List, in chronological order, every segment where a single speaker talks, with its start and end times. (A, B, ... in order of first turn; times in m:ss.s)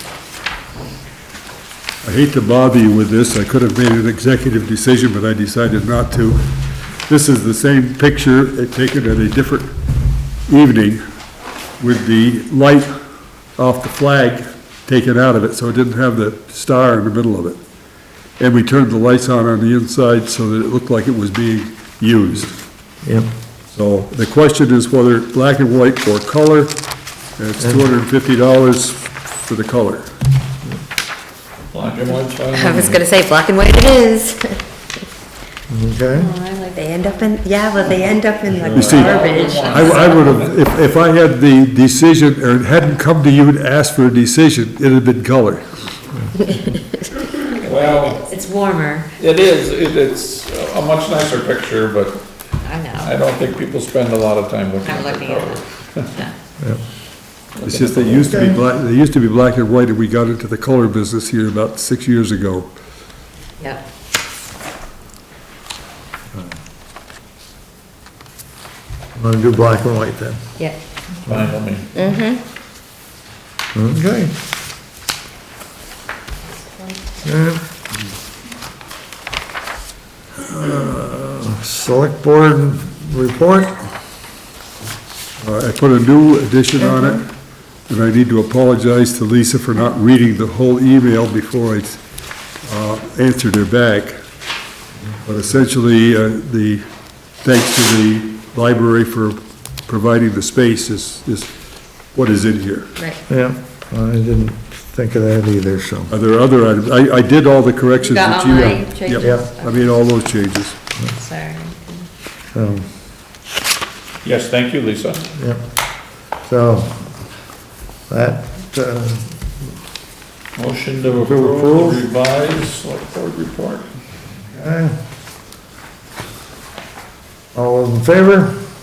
0:02.0-0:09.8 A
0:10.5-0:11.0 A
0:11.8-0:13.0 A
0:13.6-0:17.6 A
0:18.4-0:22.6 A
0:23.0-0:23.3 B
0:23.7-0:26.8 A
0:27.4-0:30.1 A
0:27.6-0:27.9 B
0:31.7-0:33.0 C
0:32.5-0:34.6 D
0:35.7-0:36.3 B
0:36.2-0:37.4 E
0:36.8-0:39.8 D
0:38.5-0:40.5 C
0:38.7-0:45.9 A
0:38.8-0:40.2 E
0:47.6-0:48.2 C
0:48.2-0:49.1 E
0:49.2-0:52.2 C
0:52.6-0:53.1 E
0:53.0-0:56.1 C
0:54.8-0:56.4 E
0:57.6-0:58.4 C
0:57.6-1:02.7 A
1:09.2-1:10.4 B
1:11.2-1:11.9 C
1:12.0-1:12.4 D
1:13.7-1:14.3 B
1:16.5-1:17.0 E
1:17.2-1:17.6 B
1:20.4-1:23.9 B
1:25.4-1:27.3 A
1:27.9-1:32.0 A
1:32.6-1:34.2 A
1:35.2-1:36.9 A
1:37.4-1:41.5 A
1:42.1-1:42.9 A
1:43.3-1:46.1 B
1:46.1-1:50.8 A
1:48.0-1:50.0 E
1:49.2-1:49.5 B
1:51.0-1:52.1 E
1:52.5-1:52.9 B
1:54.2-1:55.3 C
1:55.4-1:55.6 B
1:56.4-1:57.0 B
1:58.1-1:59.4 B
2:00.6-2:03.9 C
2:01.1-2:02.0 B
2:04.5-2:05.0 B
2:07.6-2:08.6 B